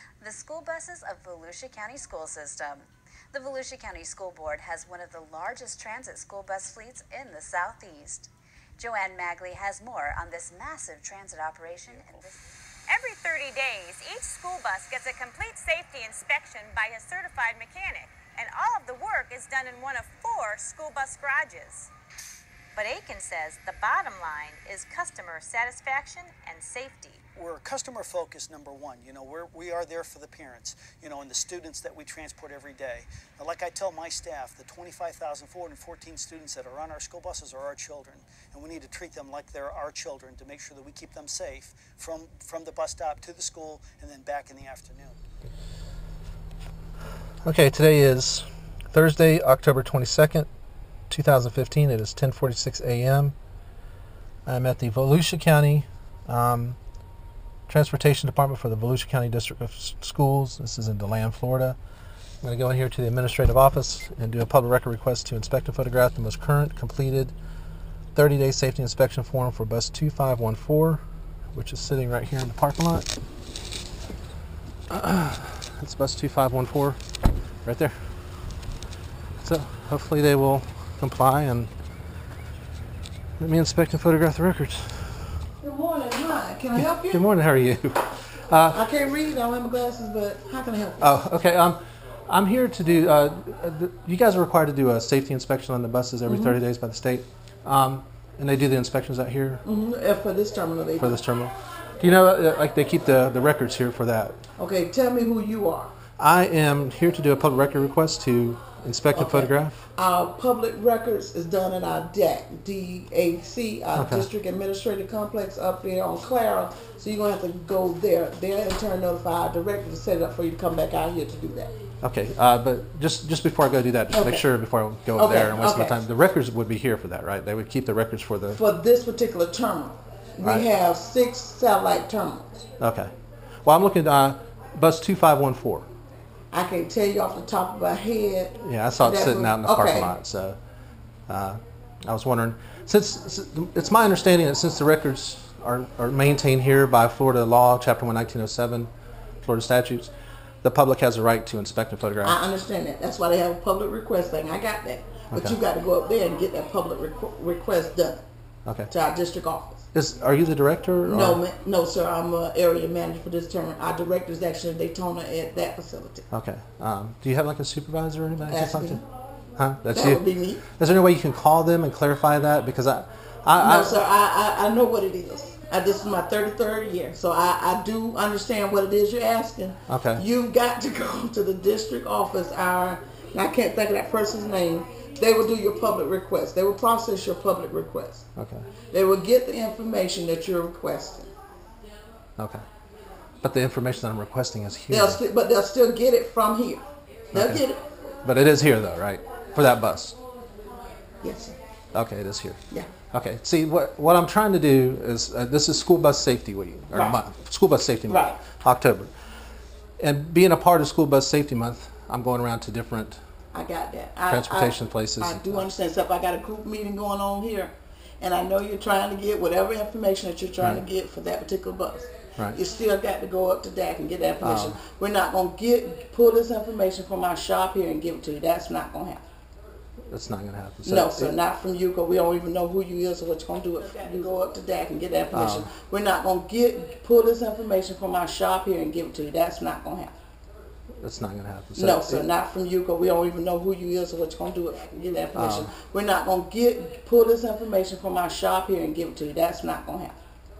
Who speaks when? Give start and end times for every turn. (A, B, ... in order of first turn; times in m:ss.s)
0:00.2-0:12.4 A
0:11.9-0:12.2 B
0:12.9-0:21.9 C
0:22.8-0:27.2 C
0:27.4-0:45.2 B
0:47.4-0:50.5 D
0:51.1-0:53.4 D
0:54.5-0:56.8 D
0:57.7-1:01.8 D
1:02.4-1:07.3 D
1:08.2-1:11.0 D
1:11.5-1:13.1 D
1:14.9-1:17.0 D
1:17.6-1:18.0 D
1:19.4-1:21.7 D
1:23.4-1:25.3 D
1:25.6-1:27.2 E
1:26.8-1:28.8 D
1:28.7-1:31.1 E
1:31.0-1:39.6 D
1:36.3-1:36.6 E
1:39.6-1:41.2 E
1:41.0-1:44.4 D
1:44.6-1:45.9 E
1:46.2-1:49.9 D
1:49.1-2:01.7 E
1:54.0-1:54.3 D
2:02.0-2:08.6 D
2:04.1-2:04.4 E
2:05.2-2:06.0 E
2:08.5-2:12.6 E
2:10.4-2:10.7 D
2:12.8-2:13.1 D
2:13.6-2:15.9 D
2:16.5-2:20.1 E
2:18.6-2:20.6 D
2:21.3-2:28.9 D
2:29.4-2:32.4 D
2:32.2-2:38.2 E
2:35.3-2:35.6 D
2:38.9-2:39.9 E
2:39.9-2:41.4 D
2:41.1-2:46.2 E
2:46.3-2:49.0 D
2:48.5-2:49.0 E
2:49.6-2:54.0 D
2:49.9-2:50.6 E
2:53.6-3:08.2 E
2:59.9-3:00.2 D
3:08.4-3:08.7 D
3:08.9-3:11.3 E
3:12.4-3:12.6 D
3:13.4-3:15.2 D
3:14.9-3:17.8 E
3:17.3-3:17.6 D
3:18.2-3:20.2 D
3:21.2-3:21.6 E
3:21.9-3:22.6 D
3:23.1-3:29.1 D
3:26.9-3:27.2 E
3:28.1-3:28.4 E
3:30.0-3:33.2 D
3:33.5-3:49.2 E
3:34.3-3:35.7 D
3:44.4-3:44.8 D
3:50.1-3:51.4 D
3:50.8-4:00.2 E
3:55.3-3:55.7 D
4:01.0-4:02.3 D
4:01.8-4:10.2 E
4:05.4-4:05.7 D